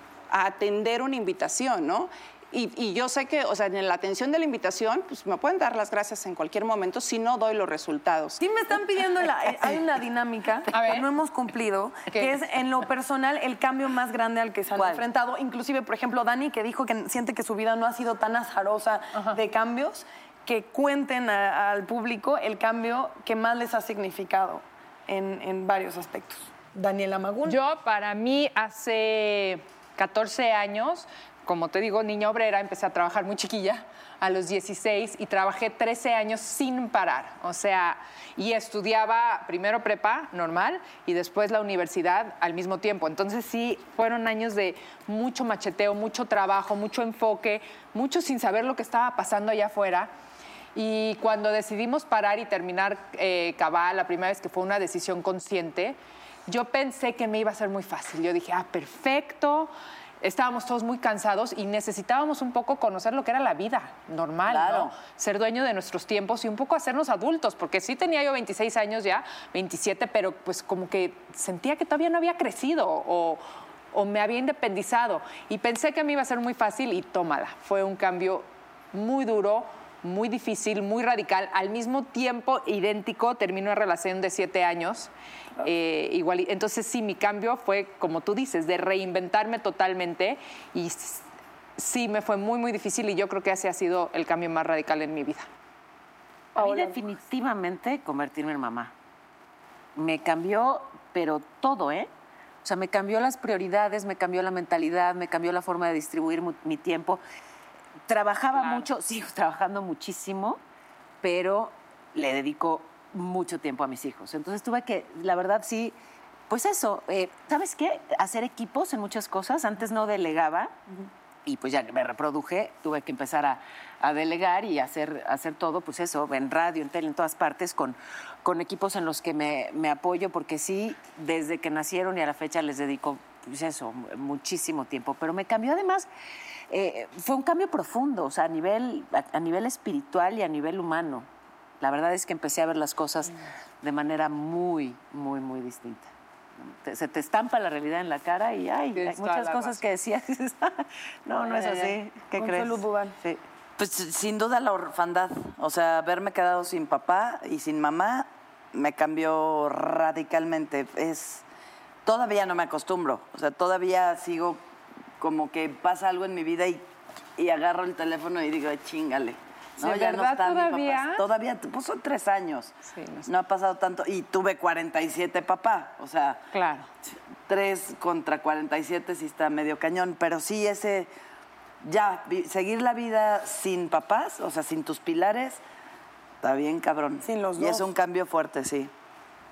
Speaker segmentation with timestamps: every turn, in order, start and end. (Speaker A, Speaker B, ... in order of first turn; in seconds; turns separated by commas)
Speaker A: 0.3-8.4, Speaker B: 8.4-27.6, Speaker C: 10.7-11.1, Speaker C: 12.1-12.4, Speaker D: 14.8-15.0, Speaker C: 27.5-50.1, Speaker C: 50.8-73.4, Speaker D: 64.5-64.9, Speaker C: 73.9-91.2, Speaker C: 91.8-95.5, Speaker E: 96.5-98.9, Speaker B: 96.6-97.0, Speaker E: 100.0-102.1, Speaker E: 102.6-107.2, Speaker E: 108.1-110.6, Speaker E: 111.2-116.0, Speaker E: 116.5-120.8, Speaker E: 121.5-136.1, Speaker E: 136.7-141.3, Speaker E: 141.8-146.1, Speaker E: 146.7-153.4, Speaker C: 149.0-149.8, Speaker B: 152.3-153.2, Speaker D: 153.8-161.4, Speaker D: 162.1-164.6, Speaker D: 165.2-166.9, Speaker D: 167.4-176.4, Speaker C: 169.8-171.2, Speaker C: 172.9-173.3, Speaker C: 176.5-176.9, Speaker D: 177.5-181.1, Speaker D: 181.8-185.6, Speaker D: 186.4-188.9, Speaker B: 187.2-187.8